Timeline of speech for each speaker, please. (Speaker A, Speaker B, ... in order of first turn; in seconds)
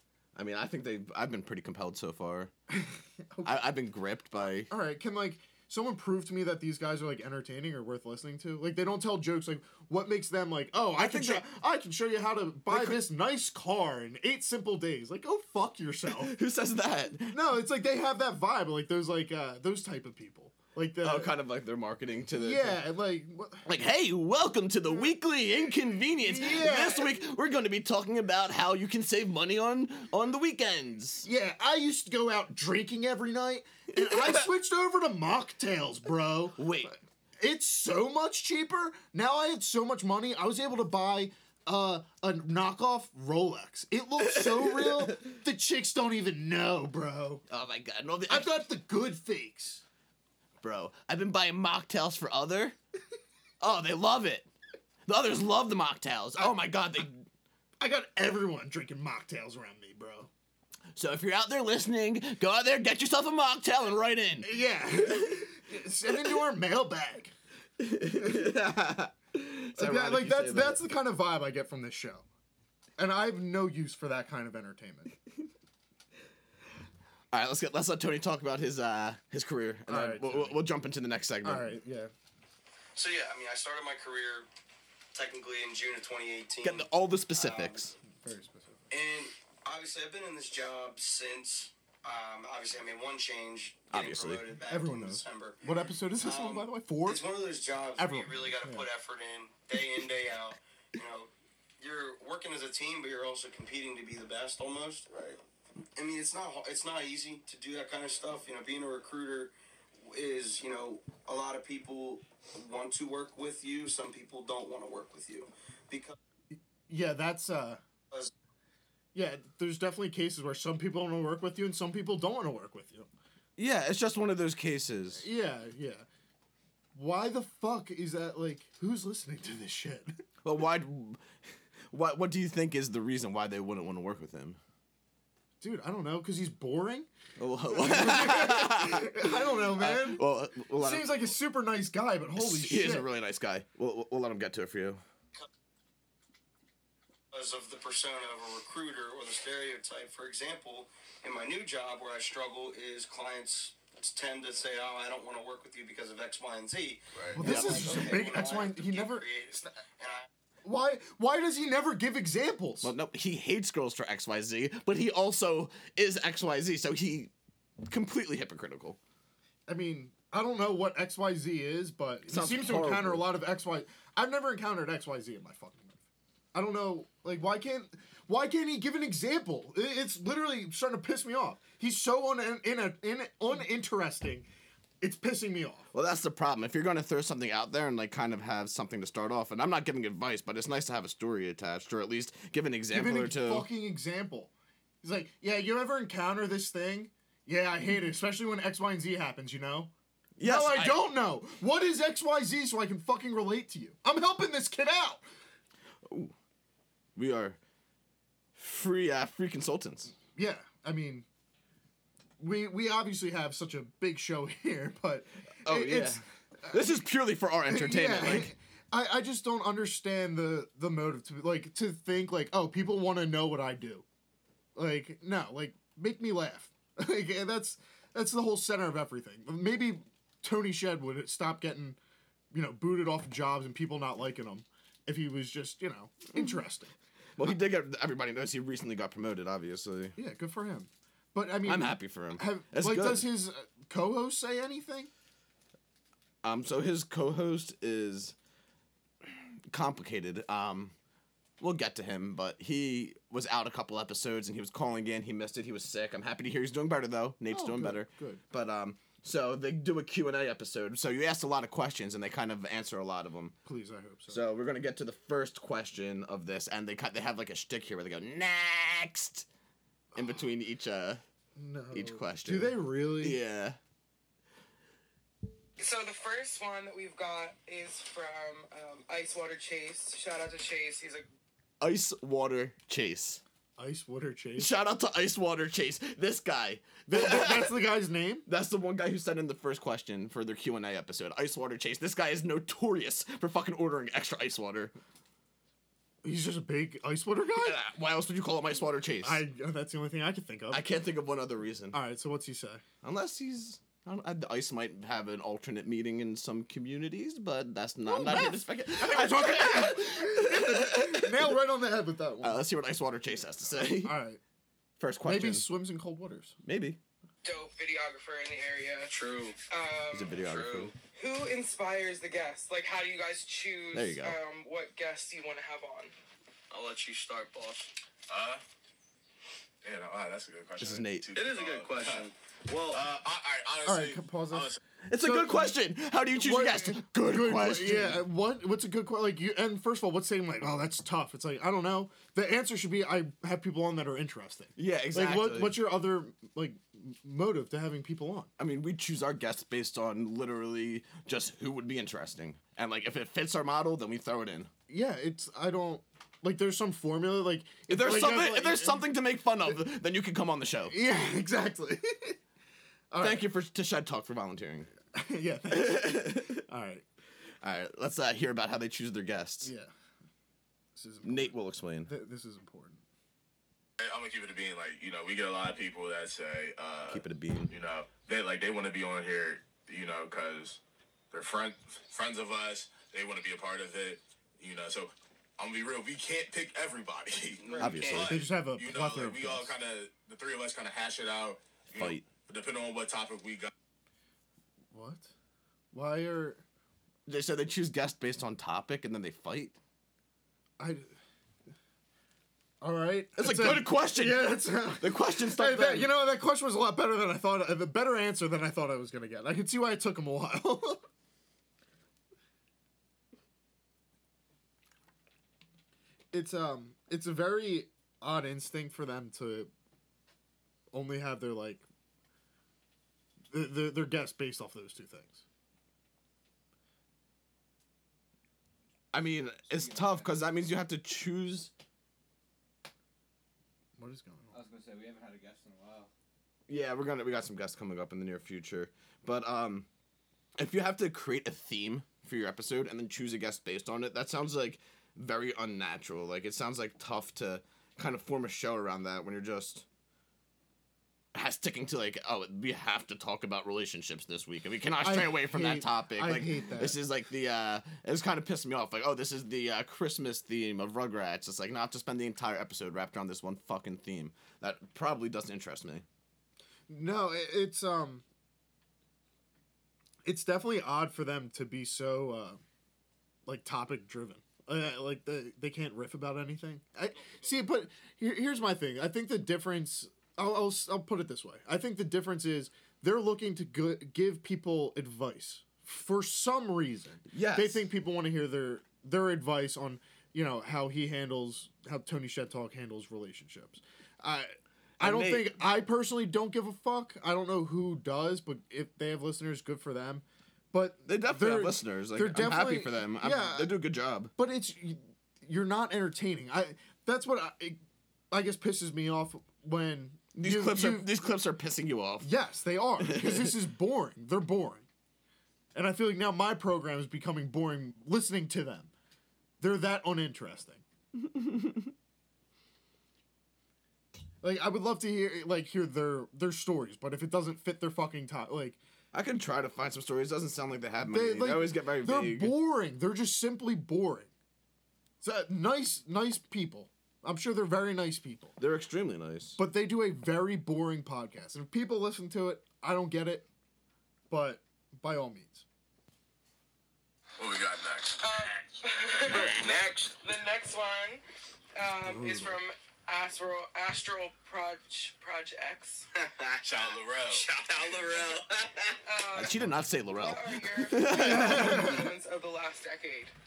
Speaker A: 0.3-2.5, 3.4-4.7, 10.9-11.5, 12.7-13.0, 16.1-17.4, 21.0-22.8, 23.6-31.3, 34.1-34.4, 36.6-36.9, 44.3-45.1, 47.5-48.6, 50.6-52.8, 53.6-54.5, 55.0-57.2, 60.9-64.5, 65.0-65.4, 67.8-70.8, 77.3-81.7, 86.6-87.9, 93.9-94.4, 123.6-125.3, 130.4-131.2, 131.9-134.6, 137.4-141.3, 142.3-145.0, 157.4-158.3, 162.8-167.3, 167.8-169.0, 172.3-173.3, 185.9-193.7, 200.4-201.1, 206.0-206.3, 207.2-207.6, 208.6-210.1, 215.6-218.5, 237.4-240.2, 241.6-243.3, 246.4-248.3, 249.7-250.9, 251.6-263.5, 264.3-269.4, 270.1-271.2, 271.9-273.8, 281.8-283.4, 284.6-287.8, 288.4-294.9, 297.6-299.4, 300.7-302.0, 303.0-311.6, 312.4-314.2, 315.0-315.7, 316.6-317.0, 320.1-320.9, 323.9-324.4, 330.8-331.3, 335.0-338.2, 344.8-345.8, 348.6-354.7, 357.9-360.9, 363.2-364.9, 365.7-366.6, 367.6-369.7, 371.2-372.1, 377.1-377.7, 387.8-388.4, 391.9-392.2, 397.3-399.8, 403.4-406.1, 429.1-431.7, 436.7-439.9, 440.6-449.9, 451.3-466.0, 487.3-487.9, 495.0-495.6, 501.1-504.3, 510.3-512.3, 513.0-513.5, 521.2-521.9, 529.1-532.6, 538.6-539.6, 549.3-549.7, 559.3-562.1
Speaker B: 2.7-3.7, 4.4-16.3, 17.3-21.4, 22.4-23.6, 26.2-27.2, 31.2-47.4, 48.3-49.8, 57.8-60.3, 64.4-67.3, 68.1-68.4, 69.7-72.2, 73.0-75.1, 79.9-80.6, 81.4-82.1, 88.1-88.9, 94.7-97.2, 98.0-98.9, 116.5-117.8, 119.1-123.1, 125.2-126.0, 126.9-130.2, 135.6-137.1, 137.7-140.2, 140.8-143.1, 157.3-159.7, 160.6-162.9, 169.7-176.0, 176.5-184.5, 185.0-185.9, 192.9-194.5, 195.0-205.2, 210.3-211.2, 212.4-217.0, 217.7-224.0, 224.8-232.0, 232.5-236.9, 240.2-245.1, 257.5-258.4, 263.6-264.4, 270.1-270.5, 271.6-273.4, 283.8-284.7, 287.1-288.5, 296.2-297.8, 299.2-300.9, 301.9-302.8, 308.1-312.6, 313.7-314.4, 315.2-316.5, 333.8-335.8, 336.3-348.5, 354.9-359.1, 360.9-362.4, 363.1-363.4, 365.1-367.0, 369.6-369.9, 370.9-373.0, 388.2-389.7, 394.9-395.3, 395.9-396.6, 400.8-401.1, 402.8-411.0, 416.3-419.7, 420.9-421.8, 423.5-425.4, 434.0-434.5, 455.0-457.0, 466.9-468.2, 470.2-472.6, 473.4-503.8, 504.4-507.8, 508.3-511.1, 512.2-514.9, 515.7-518.9, 519.6-520.8, 524.4-528.8, 531.0-534.3, 535.2-538.6, 539.6-543.5, 544.3-545.6, 552.0-552.6, 561.1-562.1
Speaker C: 83.0-84.5, 85.1-87.8, 88.9-95.6, 96.2-105.4, 106.0-109.5, 110.0-116.1, 147.3-160.3, 319.0-319.6, 320.4-320.9, 326.7-327.9, 331.3-333.0, 387.6-388.3, 556.1-559.0
Speaker D: 275.8-281.3, 317.4-319.1, 319.6-320.4, 320.9-326.1, 387.6-388.0, 548.2-551.2, 551.7-556.0, 559.0-563.3
Speaker E: 328.3-328.6, 329.8-332.3, 332.9-334.8, 374.0-380.8, 381.3-393.7, 547.4-550.1, 556.6-558.3
Speaker F: 429.7-430.4, 434.5-436.1